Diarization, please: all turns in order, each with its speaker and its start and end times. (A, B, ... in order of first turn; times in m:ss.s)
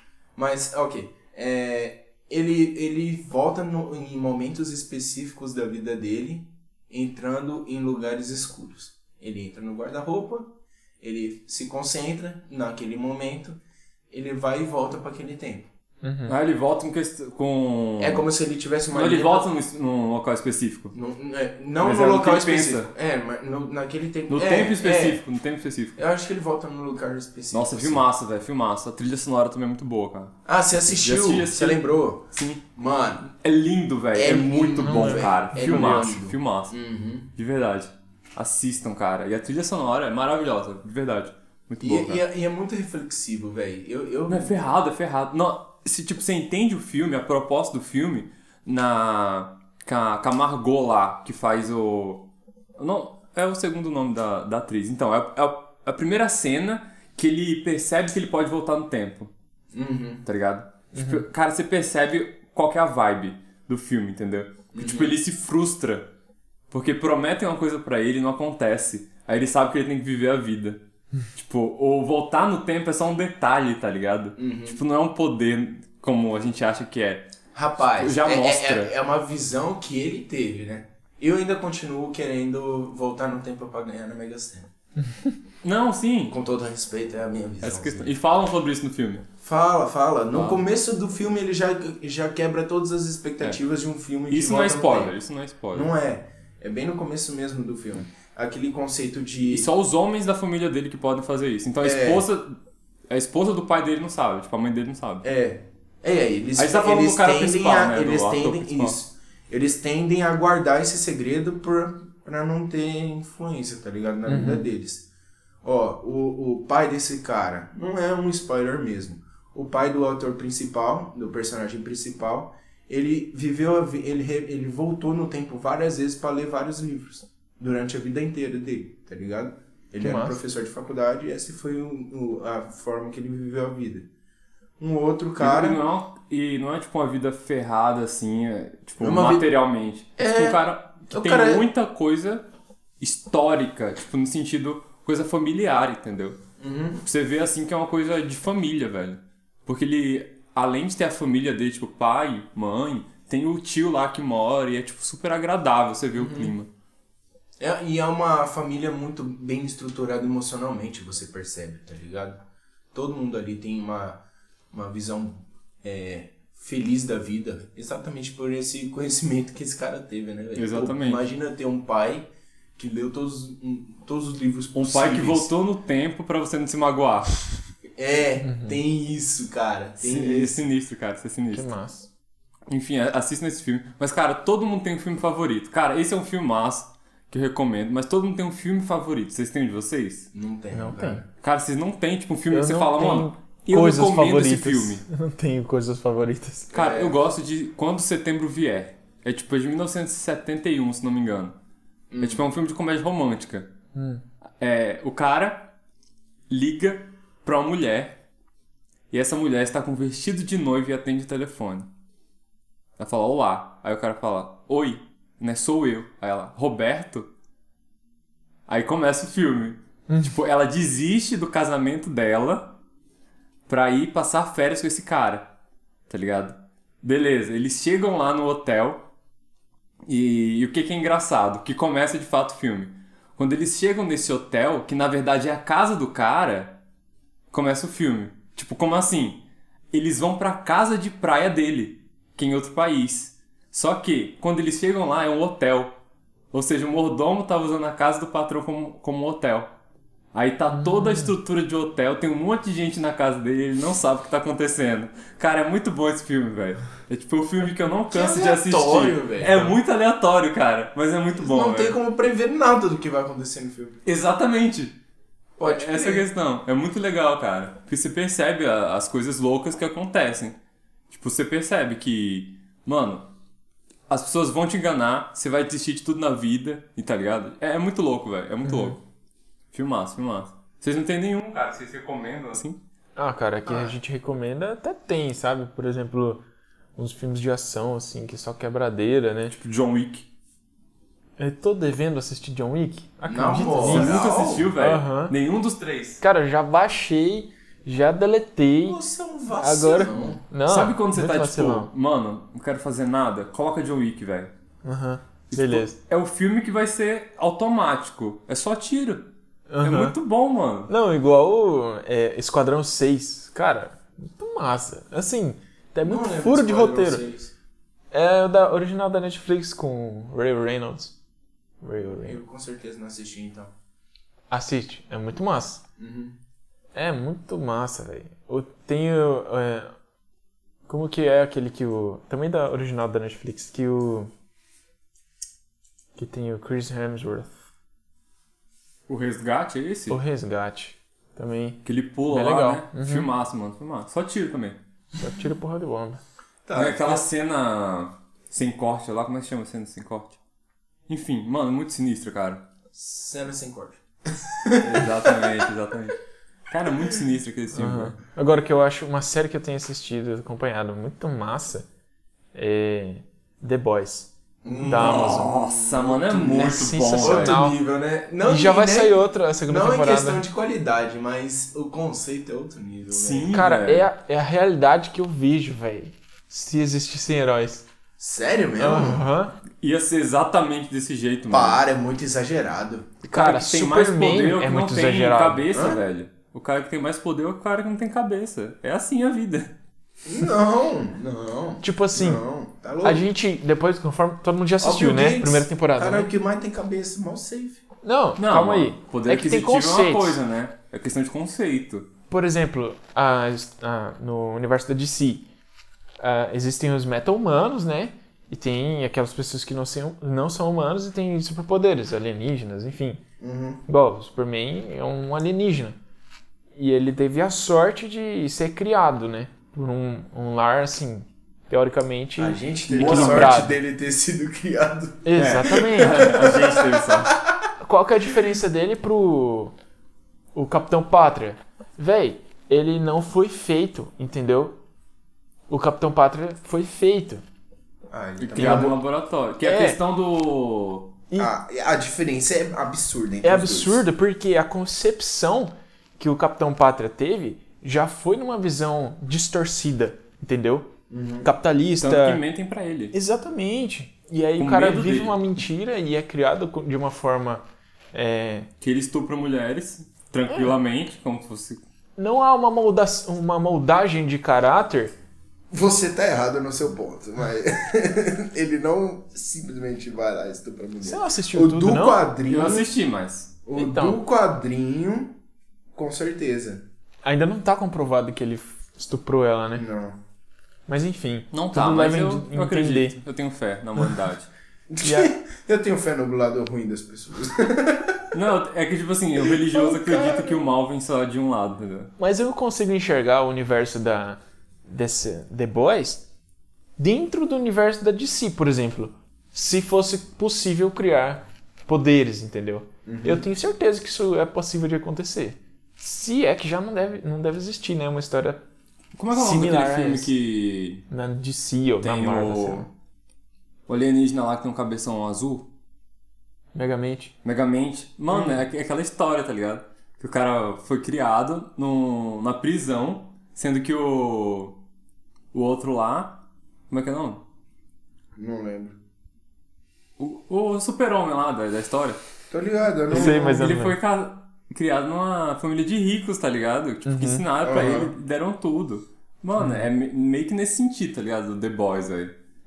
0:00.4-0:13.6 A
0:14.1-0:15.7 A
0:16.0-0:16.3 B
0:16.3-0:18.2 C
0:18.0-0:19.5 A
0:18.9-0:20.9 C
0:20.9-0:25.2 A
0:21.8-0:22.9 C
0:24.3-0:26.0 C
0:26.0-0:28.0 A
0:27.5-0:32.6 C
0:30.4-0:33.3 A
0:33.2-0:36.8 C
0:34.1-0:37.3 A
0:34.8-0:36.1 B
0:37.3-0:42.2 C
0:41.8-0:44.5 A
0:44.3-0:52.2 C
0:52.8-0:59.3 C
0:59.7-1:00.2 A
1:00.2-1:06.1 C
1:00.9-1:01.2 B
1:04.7-1:05.2 A
1:06.7-1:10.8 C
1:11.3-1:18.9 C
1:14.4-1:14.8 A
1:17.5-1:24.7 A
1:25.6-1:26.4 C
1:26.3-1:28.1 A
1:27.6-1:29.2 C
1:29.4-1:35.2 A
1:30.3-1:30.6 C
1:34.3-1:35.9 C
1:35.7-1:39.7 A
1:39.5-1:42.6 C
1:41.8-1:42.2 A
1:43.1-1:45.2 C
1:45.2-1:55.0 A
1:46.6-1:48.9 C
1:54.3-1:54.7 B
1:55.6-2:14.1 A
2:10.0-2:10.4 B
2:14.8-2:15.8 A
2:15.4-2:22.4 C
2:19.0-2:19.5 A
2:20.2-2:21.7 A
2:23.0-2:26.4 C
2:26.6-2:27.0 A
2:27.0-2:36.7 C
2:36.1-2:36.5 A
2:37.6-2:42.4 A
2:42.9-2:55.5 A
2:50.5-2:51.2 C
2:54.7-2:57.4 C
2:58.0-3:00.6 A
2:58.4-2:58.8 B
3:00.0-3:01.7 C
3:01.5-3:02.1 B
3:02.7-3:10.3 C
3:10.3-3:11.3 A
3:10.7-3:11.2 B
3:11.4-3:15.0 C
3:12.5-3:16.7 B
3:16.7-3:17.2 A
3:16.7-3:21.5 C
3:22.1-3:22.4 A
3:22.2-3:23.7 C
3:23.9-3:24.2 B
3:24.6-3:25.7 C
3:26.5-3:28.2 C
3:29.1-3:31.9 C
3:33.0-3:37.3 C
3:38.7-3:42.7 C
3:40.1-3:40.3 B
3:43.7-3:45.5 C
3:46.1-3:49.0 C
3:50.1-3:56.8 C
3:57.5-4:05.9 C
4:06.5-4:09.7 C
4:10.3-4:22.0 C
4:10.7-4:11.3 B
4:18.1-4:19.7 A
4:21.4-4:24.0 A
4:24.0-4:25.0 C
4:25.6-4:26.3 A
4:25.6-4:30.6 C
4:31.1-4:33.3 C
4:34.1-4:39.0 C
4:38.6-4:39.0 B
4:39.7-4:42.8 C
4:43.2-4:46.4 B
4:43.7-4:43.9 A
4:47.0-4:49.5 B
4:49.5-4:50.2 C
4:51.4-4:54.2 B
4:53.3-4:54.7 A
4:53.8-4:56.2 C
4:54.8-4:55.3 B
4:56.2-4:59.0 B
4:58.8-5:00.4 A
4:59.5-5:01.9 B
5:00.6-5:04.5 C
5:04.8-5:05.9 B
5:05.5-5:09.3 C
5:09.7-5:10.2 B
5:09.8-5:10.9 C
5:10.9-5:17.2 B
5:16.0-5:17.5 A
5:18.1-5:21.1 B
5:21.8-5:22.4 B
5:22.2-5:23.7 A
5:24.5-5:25.8 B
5:26.0-5:26.4 A
5:26.9-5:29.9 B
5:30.9-5:34.3 B
5:36.2-5:37.5 B
5:39.1-5:40.2 C
5:40.1-5:43.3 B
5:41.8-5:44.8 C
5:45.2-5:46.2 B
5:46.6-5:47.2 A
5:46.7-5:50.4 C
5:51.1-5:52.6 C
5:52.9-5:55.6 A
5:54.8-5:56.2 C
5:56.7-5:58.2 C
5:57.7-6:01.8 B
6:02.5-6:05.6 B
6:04.6-6:06.7 A
6:04.9-6:07.6 C
6:06.3-6:07.8 B
6:07.2-6:13.5 A
6:08.4-6:10.4 B
6:13.1-6:14.1 C
6:13.5-6:17.8 B
6:18.2-6:19.2 A
6:18.8-6:19.5 B
6:19.8-6:21.8 C
6:21.5-6:23.1 A
6:23.2-6:25.7 B
6:23.3-6:29.7 C
6:25.7-6:26.0 A
6:30.2-6:33.2 A
6:31.8-6:32.4 B
6:33.0-6:36.3 B
6:34.8-6:37.8 A
6:38.0-6:40.4 B
6:38.4-6:42.1 C
6:42.3-6:45.4 B
6:46.2-6:53.2 B
6:53.4-6:53.8 A
6:53.8-6:56.0 B
6:56.7-7:03.7 B
7:02.4-7:07.5 A
7:02.9-7:03.6 C
7:05.2-7:06.3 B
7:05.4-7:07.4 C
7:07.8-7:09.7 B
7:10.5-7:14.8 B
7:15.7-7:17.4 B
7:18.1-7:19.0 A
7:18.4-7:21.1 C
7:18.6-7:18.9 B
7:19.6-7:20.0 B
7:21.4-7:24.0 A
7:23.4-7:30.9 B
7:31.1-7:31.5 A
7:31.4-7:32.4 B
7:32.0-7:33.1 C
7:33.1-7:38.7 B
7:34.6-7:35.5 C
7:38.8-7:41.8 C
7:40.5-7:40.7 B
7:42.2-7:45.1 B
7:45.7-7:52.9 A
7:51.0-7:52.2 B
7:52.4-7:53.5 C
7:53.6-7:55.4 A
7:53.7-7:54.2 B
7:55.9-7:56.8 A
7:57.2-7:59.8 B
7:59.7-8:00.2 A
8:00.9-8:03.2 B
8:01.5-8:04.5 C
8:04.9-8:08.2 A
8:05.0-8:05.3 B
8:08.3-8:12.1 C
8:09.4-8:10.6 A
8:12.2-8:16.2 B
8:17.0-8:28.6 B
8:23.0-8:23.5 A
8:29.2-8:31.0 C
8:29.3-8:30.3 B
8:31.1-8:32.9 B
8:32.0-8:32.8 C
8:33.9-8:35.7 C
8:36.7-8:37.3 B
8:37.4-8:44.8 C
8:38.3-8:38.6 B
8:45.5-8:47.4 C
8:48.4-8:49.0 A
8:50.2-8:52.2 C
8:52.5-8:53.7 A
8:53.1-8:54.0 B
8:53.1-9:02.3 C
8:57.0-8:57.4 B
8:57.6-8:58.1 A
8:59.6-8:59.9 B